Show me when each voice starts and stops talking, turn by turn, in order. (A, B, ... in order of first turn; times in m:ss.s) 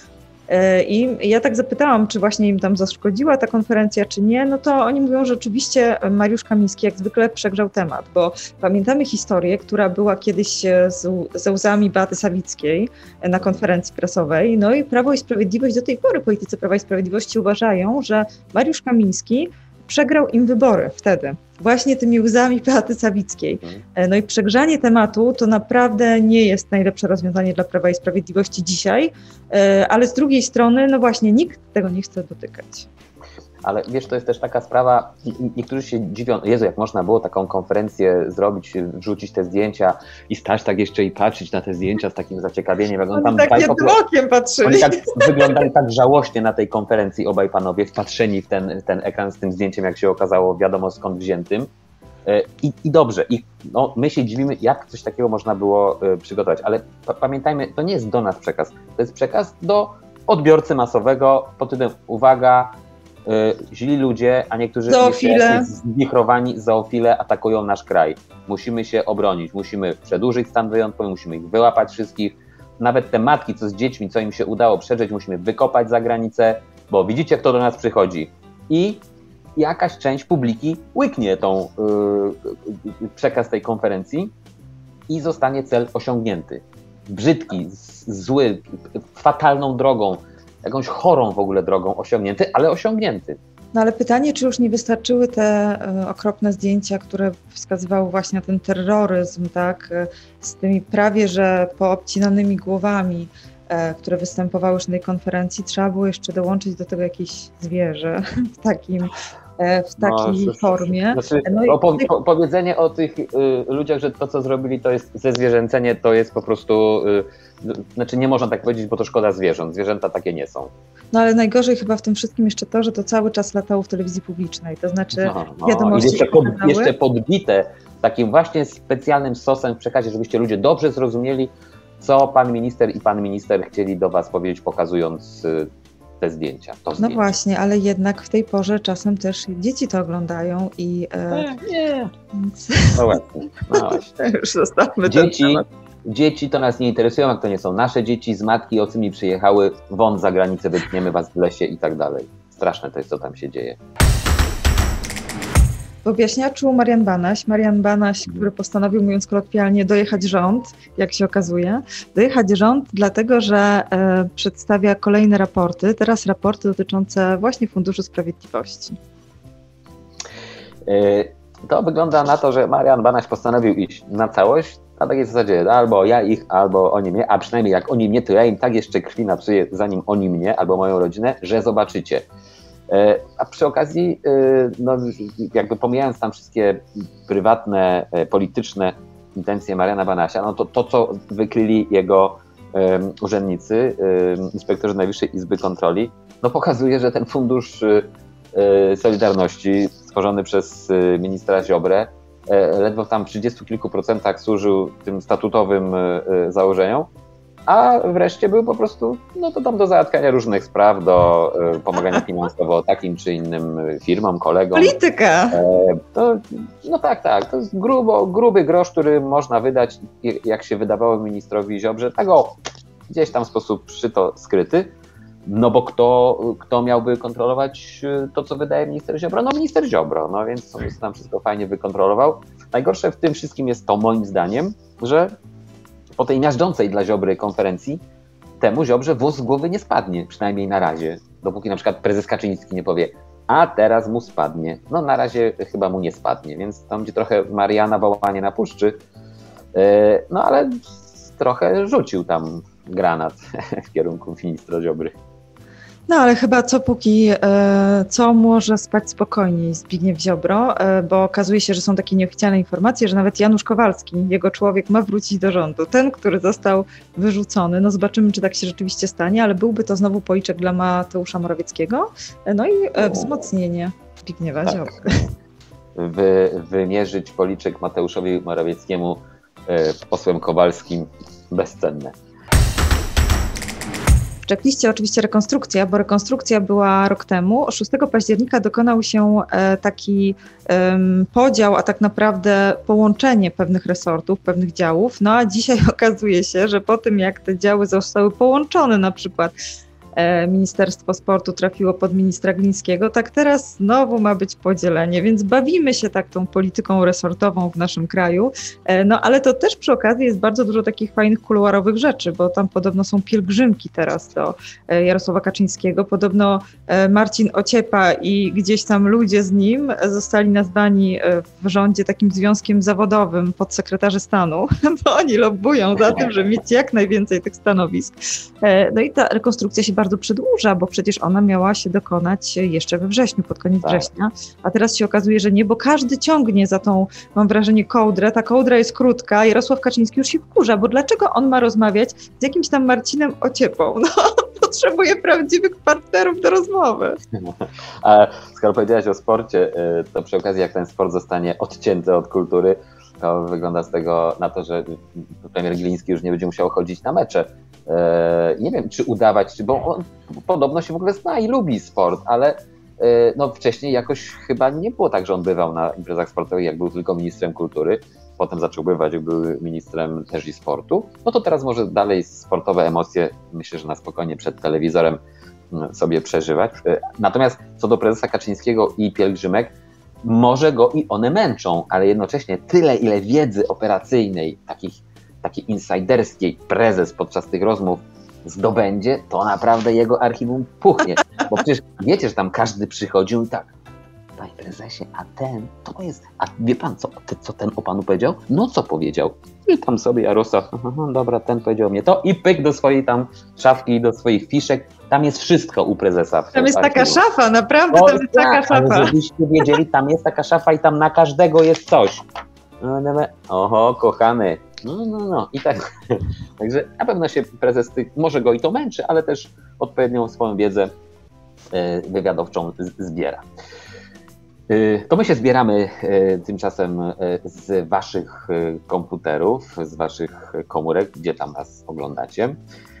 0:00.5-0:32.9 A
0:33.6-0:44.0 B
0:43.1-0:45.6 A
0:44.6-0:51.7 B
0:52.2-1:19.0 B
1:04.9-1:05.7 A
1:19.6-1:24.3 B
1:25.1-1:33.4 B
1:33.7-1:52.1 A
1:50.0-2:00.7 B
2:01.1-2:06.9 A
2:05.2-2:15.7 B
2:16.2-2:17.3 B
2:17.0-2:21.6 A
2:21.3-2:22.1 B
2:22.4-2:23.0 A
2:22.9-2:24.1 B
2:23.7-2:25.6 A
2:25.0-2:33.8 B
2:36.0-2:49.0 A
2:50.8-3:02.2 B
3:02.9-3:27.1 B
3:27.7-3:35.0 B
3:34.7-3:35.6 A
3:35.5-3:42.6 B
3:43.1-3:44.9 B
3:45.4-3:55.3 B
3:56.2-3:58.0 B
3:58.6-4:09.0 B
4:09.7-4:15.1 B
4:16.1-4:35.2 A
4:34.6-4:35.2 B
4:36.0-4:42.1 B
4:44.4-4:59.5 A
5:00.1-5:47.2 A
5:33.8-5:34.1 B
5:47.4-6:15.2 B
6:15.7-6:33.7 B
6:34.4-6:47.2 B
6:46.5-6:49.1 A
6:47.9-6:52.2 B
6:52.8-7:00.9 B
7:01.7-7:03.4 B
7:04.7-7:12.6 B